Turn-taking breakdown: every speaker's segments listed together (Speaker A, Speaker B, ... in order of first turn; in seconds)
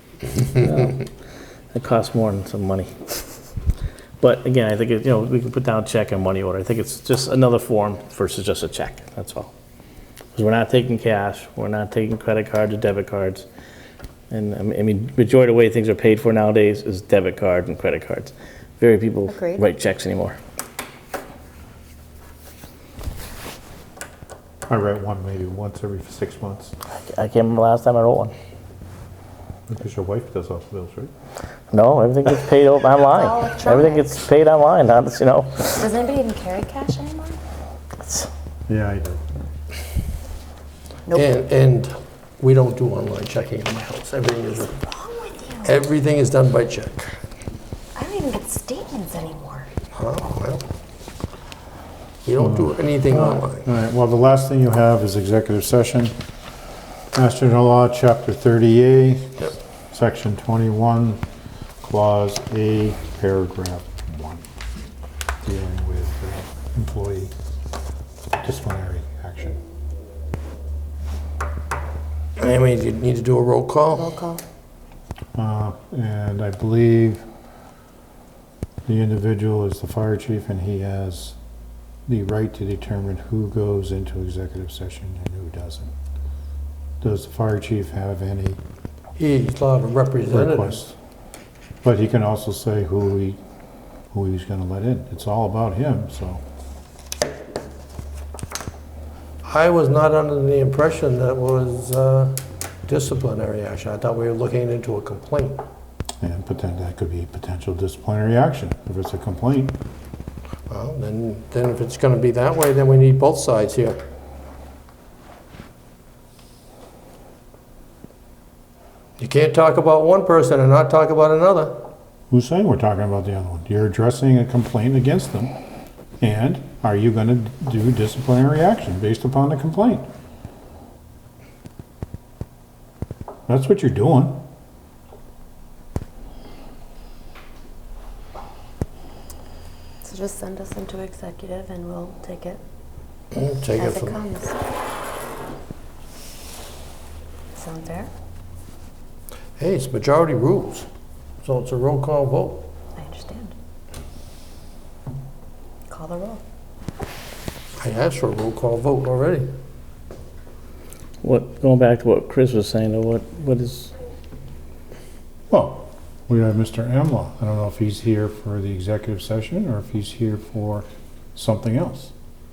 Speaker A: 0.5-1.1, 1.7-3.1, 4.2-9.5, 10.3-13.4, 14.3-20.4, 26.9-28.3, 31.7-35.9, 161.2-163.9
Speaker B: 19.3-19.7, 33.0-34.2, 35.8-37.4, 41.1-41.4, 44.6-45.9, 48.0-49.7, 73.9-74.4, 140.0-142.6, 143.8-144.8, 147.5-148.1, 153.0-153.5, 155.9-156.4
Speaker C: 24.7-26.7, 29.7-31.1, 38.7-39.2, 52.4-56.1, 57.1-61.2, 61.8-64.5, 65.4-67.3, 68.4-69.6, 75.3-77.2, 78.8-81.3, 82.1-85.9, 87.0-88.6, 90.3-91.0, 91.8-93.4, 94.1-96.4, 106.2-109.8, 122.3-125.5, 126.2-130.1, 133.5-134.4, 165.5-172.1
Speaker D: 41.1-44.7, 45.6-47.1, 49.9-50.6, 52.2-53.7, 72.4-74.2, 89.2-90.8, 99.4-105.6, 110.7-114.0, 119.2-121.8, 143.3-144.2, 149.6-150.9, 151.4-152.7, 157.8-159.5